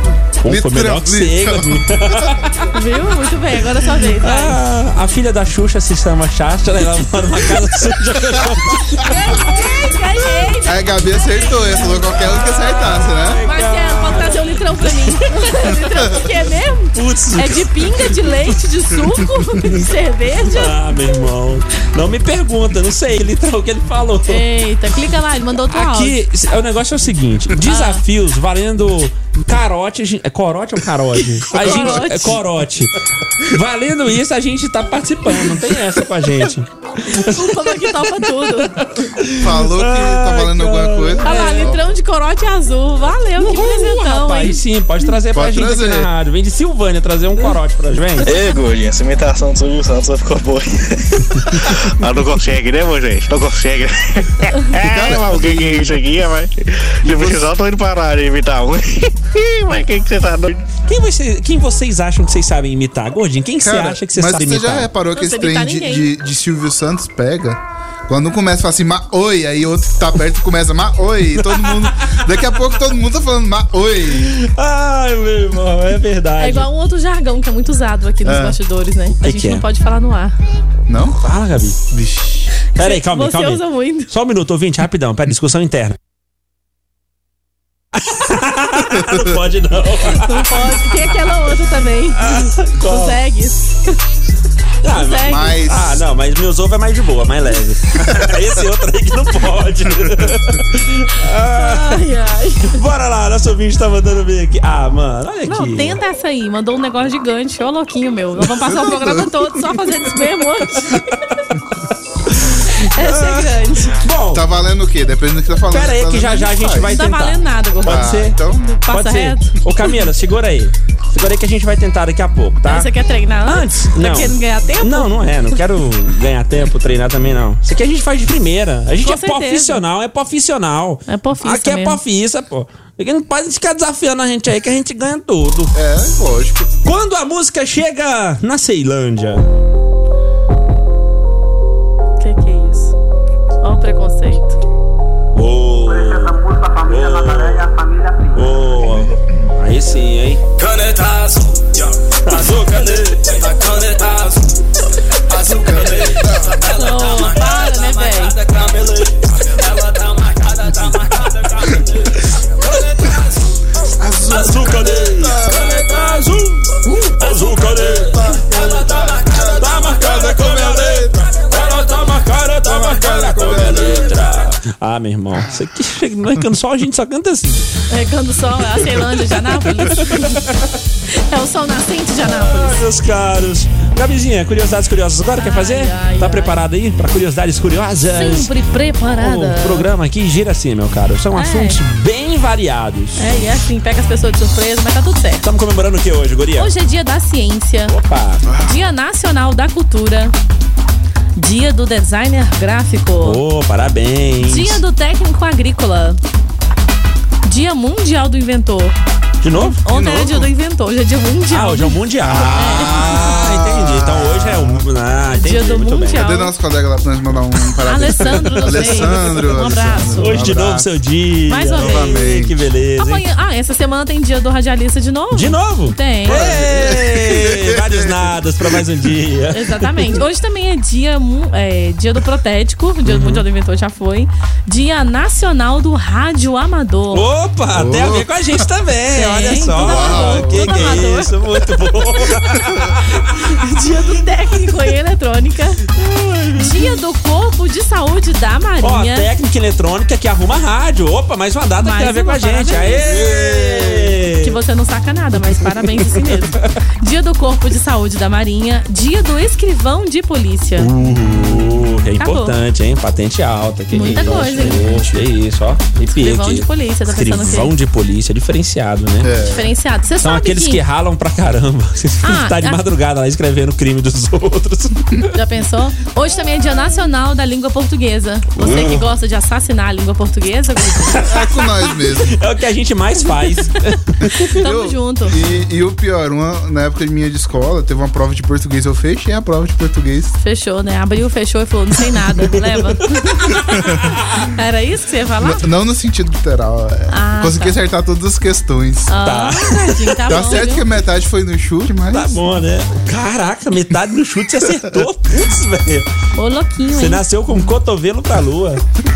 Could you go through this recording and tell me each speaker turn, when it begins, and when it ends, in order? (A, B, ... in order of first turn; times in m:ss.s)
0:00.4-0:02.7 A
0:00.4-0:02.3 B
0:02.7-0:04.6 C
0:04.2-0:09.0 A
0:09.0-0:11.4 C
0:10.6-0:13.4 B
0:12.6-0:15.5 A
0:13.4-0:20.8 C
0:16.9-0:18.3 A
0:20.5-0:24.4 A
0:24.3-0:26.2 C
0:25.7-0:41.8 A
0:27.6-0:28.0 C
0:31.5-0:32.4 C
0:31.5-0:32.1 B
0:37.1-0:38.7 C
0:39.4-0:41.8 B
0:41.2-0:44.6 C
0:43.4-0:48.3 A
0:45.3-0:46.1 B
0:48.2-1:00.7 D
0:54.8-0:55.9 B
0:57.0-0:57.5 B
1:00.9-1:04.9 A
1:03.6-1:14.4 B
1:05.1-1:06.1 C
1:11.5-1:12.2 A
1:14.2-1:16.7 A
1:16.4-1:20.4 C
1:18.2-1:18.6 B
1:19.1-1:19.6 A
1:20.9-1:21.2 B
1:21.2-1:21.8 A
1:21.9-1:22.5 B
1:22.7-1:24.1 C
1:22.8-1:26.0 A
1:28.0-1:30.9 A
1:30.1-1:34.0 C
1:32.2-1:33.2 A
1:34.8-1:42.1 A
1:34.9-1:35.5 C
1:35.2-1:35.9 B
1:38.0-1:38.2 B
1:41.5-1:42.8 C
1:42.7-1:46.0 A
1:45.5-1:51.0 C
1:48.7-1:49.2 B
1:52.3-1:54.5 A
1:52.9-1:54.0 C
1:54.3-1:57.0 B
1:55.7-1:58.4 A
1:56.9-1:59.6 C
1:57.8-1:58.7 B
1:58.9-2:02.9 A
2:02.7-2:05.1 C
2:03.4-2:15.8 A
2:09.0-2:09.8 C
2:11.1-2:12.0 C
2:15.7-2:16.8 B
2:16.8-2:19.5 A
2:22.2-2:23.0 C
2:23.6-2:24.6 C
2:25.4-2:27.7 A
2:28.3-2:30.4 A
2:30.6-2:31.7 E
2:32.2-2:33.6 A
2:35.5-2:36.6 B
2:35.8-2:36.3 A
2:36.6-2:38.9 E
2:36.7-2:38.4 C
2:39.6-2:41.2 E
2:41.0-2:41.9 A
2:42.6-2:43.1 A
2:43.9-2:45.8 B
2:44.3-2:57.7 A
2:47.8-2:51.3 B
2:52.6-2:54.2 B
2:57.9-3:00.4 C
2:59.8-3:00.7 A
3:01.1-3:02.8 C
3:02.2-3:08.5 A
3:05.4-3:06.6 C
3:08.1-3:09.9 C
3:09.1-3:13.5 A
3:11.4-3:11.8 C
3:13.2-3:15.4 C
3:15.4-3:16.7 A
3:16.6-3:18.0 C
3:17.9-3:18.6 A
3:18.6-3:20.4 C
3:21.4-3:23.4 C
3:23.2-3:24.8 A
3:24.4-3:26.2 C
3:27.4-3:29.0 C
3:29.4-3:29.8 A
3:29.6-3:33.2 C
3:29.9-3:30.5 B
3:31.5-3:36.3 A
3:32.2-3:34.8 B
3:35.3-3:36.5 C
3:36.2-3:40.9 B
3:37.8-3:40.6 C
3:38.3-3:39.2 A
3:40.2-3:43.2 A
3:41.5-3:42.3 C
3:41.7-3:42.5 B
3:43.0-3:46.5 C
3:45.3-3:50.0 A
3:46.3-3:48.8 B
3:49.5-3:57.2 C
3:53.0-3:53.4 A
3:57.1-4:03.5 A
3:57.7-3:58.3 B
3:59.2-4:01.3 C
3:59.8-4:01.0 B
4:03.4-4:05.8 C
4:06.0-4:07.0 A
4:06.6-4:09.3 C
4:08.8-4:14.6 A
4:11.8-4:13.3 C
4:13.2-4:14.1 B
4:14.4-4:20.9 C
4:15.8-4:16.4 A
4:20.8-4:29.3 A
4:22.2-4:22.6 C
4:23.9-4:25.0 C
4:26.1-4:27.7 C
4:29.2-4:29.7 B
4:29.5-4:30.8 C
4:30.2-4:35.3 A
4:32.2-4:32.8 C
4:35.3-4:41.2 C
4:38.6-4:39.0 A
4:41.1-4:44.3 A
4:41.2-4:42.4 B
4:44.3-4:45.4 C
4:44.6-4:50.4 B
4:50.4-4:53.8 C
4:53.4-4:53.9 A
4:53.7-4:54.0 B
4:54.4-4:55.6 C
4:55.4-4:59.2 B
4:57.1-4:57.8 C
4:59.1-5:00.8 C
4:59.2-5:00.6 A
5:00.3-5:02.4 B
5:02.1-5:06.1 A
5:06.4-5:07.2 C
5:06.9-5:08.8 A